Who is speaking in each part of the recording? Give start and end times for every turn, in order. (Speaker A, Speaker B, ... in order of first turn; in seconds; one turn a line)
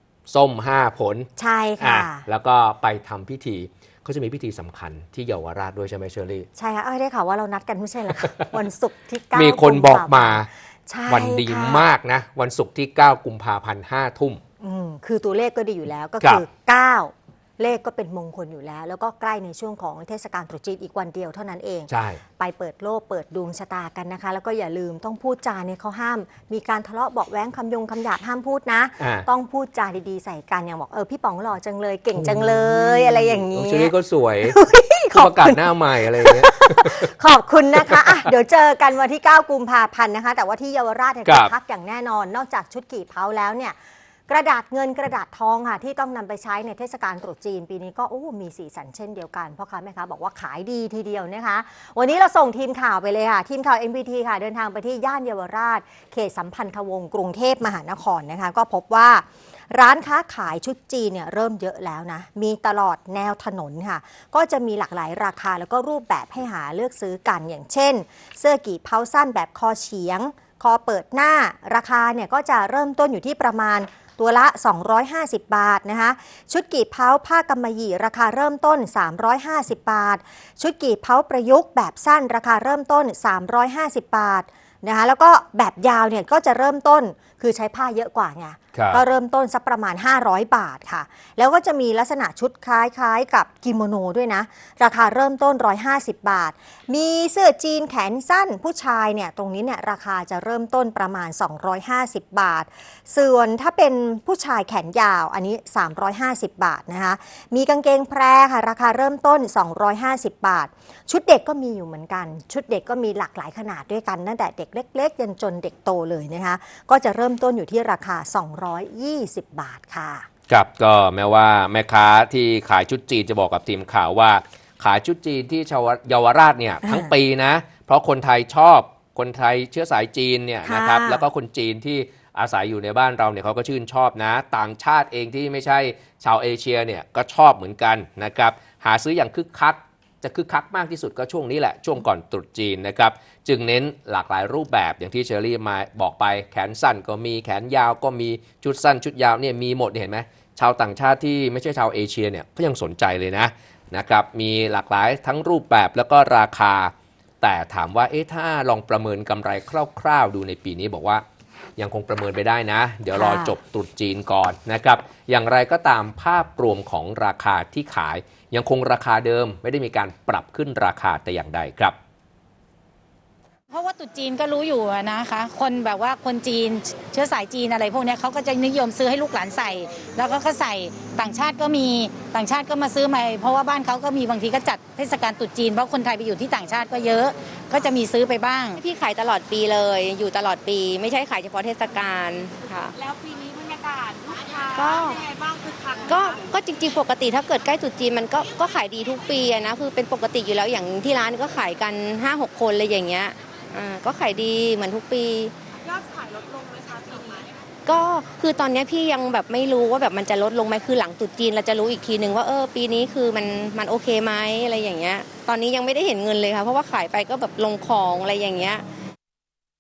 Speaker A: 0.3-6.5
Speaker B: 1.4-2.2
Speaker B: 6.6-11.9
Speaker A: 9.3-10.5
Speaker A: 11.1-14.4
Speaker B: 14.6-43.8
Speaker A: 21.9-22.2
Speaker A: 29.0-29.3
Speaker A: 32.2-34.6
Speaker A: 35.1-37.1
Speaker A: 37.8-38.3
Speaker A: 41.3-41.5
Speaker B: 44.3-120.3
Speaker A: 88.7-89.0
Speaker A: 120.5-161.2
Speaker B: 126.8-127.1
Speaker B: 130.6-131.3
Speaker A: 161.8-172.0
Speaker B: 163.1-163.6
Speaker C: 173.7-188.8
Speaker D: 188.8-193.0
Speaker E: 193.2-196.0
Speaker D: 194.7-195.2
Speaker D: 196.1-205.5
Speaker E: 206.1-207.4
Speaker D: 207.9-218.8